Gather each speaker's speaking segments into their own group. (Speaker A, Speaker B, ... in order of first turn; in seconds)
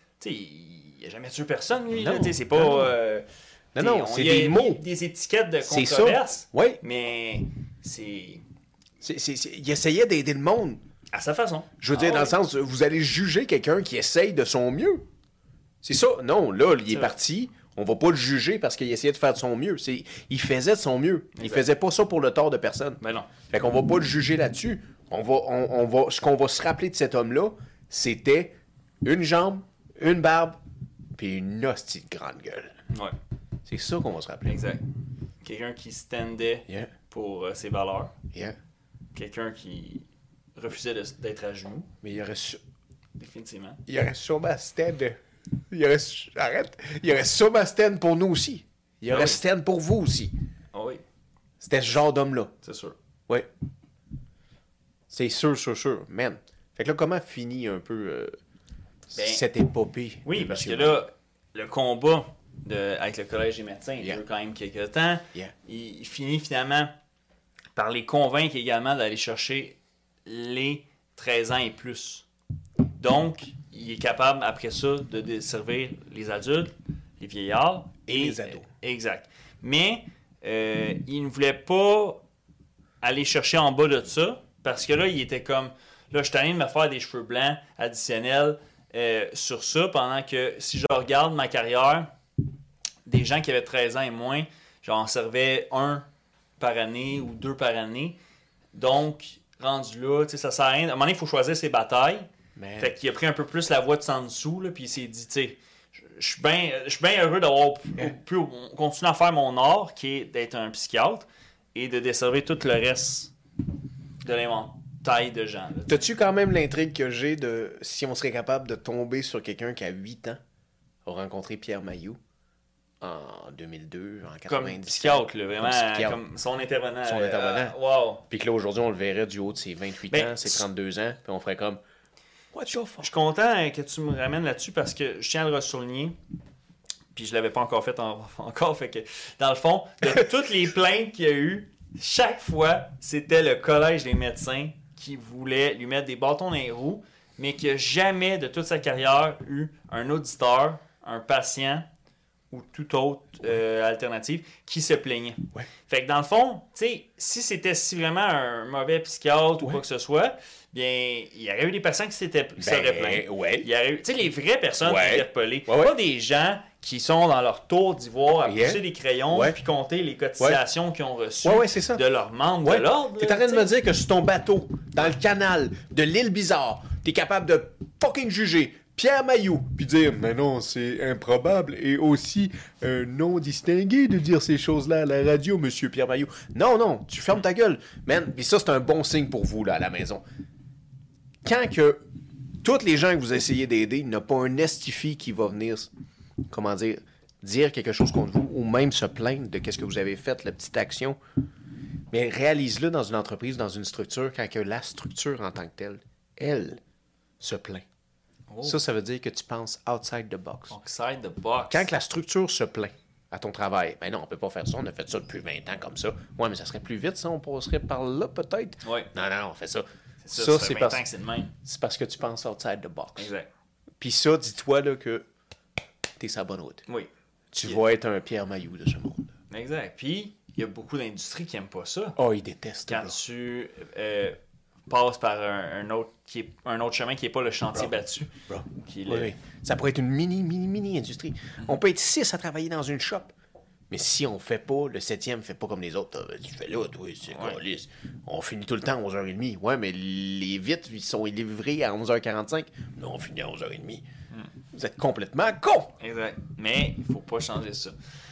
Speaker A: 0.2-3.2, 3.8-8.4, 11.1-12.4, 16.9-17.1, 21.3-21.7, 23.0-23.3, 32.9-33.1, 34.5-34.8, 35.4-38.1, 39.1-41.9, 43.2-43.8, 49.1-49.4, 50.7-51.0, 52.6-53.0, 59.1-59.4, 60.2-66.9, 67.7-72.3, 73.0-82.2, 83.0-92.1, 93.0-96.0, 96.6-98.2, 98.7-102.3, 102.8-105.6, 106.1-113.3, 114.2-116.1, 124.5-128.2, 130.1-130.6, 133.0-136.1, 137.1-151.8, 152.5-173.7, 208.5-208.8, 210.7-211.9, 218.8-219.1, 220.2-221.5, 223.2-223.5, 229.5-232.2, 232.9-239.3, 247.3-247.6, 256.0-257.9
Speaker B: 1.9-2.9, 3.7-4.8, 5.6-6.8, 9.0-10.8, 11.8-15.0, 15.8-30.6, 31.1-32.7, 33.6-34.6, 42.0-42.6, 43.9-45.2, 45.7-50.3, 51.6-52.5, 55.1-58.4, 59.1-61.0, 78.1-78.7, 102.5-103.0, 115.9-120.4, 121.0-122.2, 123.0-126.2, 127.0-127.7, 128.3-131.8, 132.5-133.1, 162.6-163.7, 164.8-165.9, 168.4-169.6, 171.4-172.0, 172.6-190.2, 191.4-192.0, 192.6-195.9, 196.5-201.2, 202.1-206.8, 207.4-207.8, 208.6-210.7, 211.7-221.0, 221.6-223.3, 224.0-225.2, 226.2-226.8, 227.5-229.3, 232.2-233.2, 238.5-243.3, 243.9-254.0, 254.7-255.9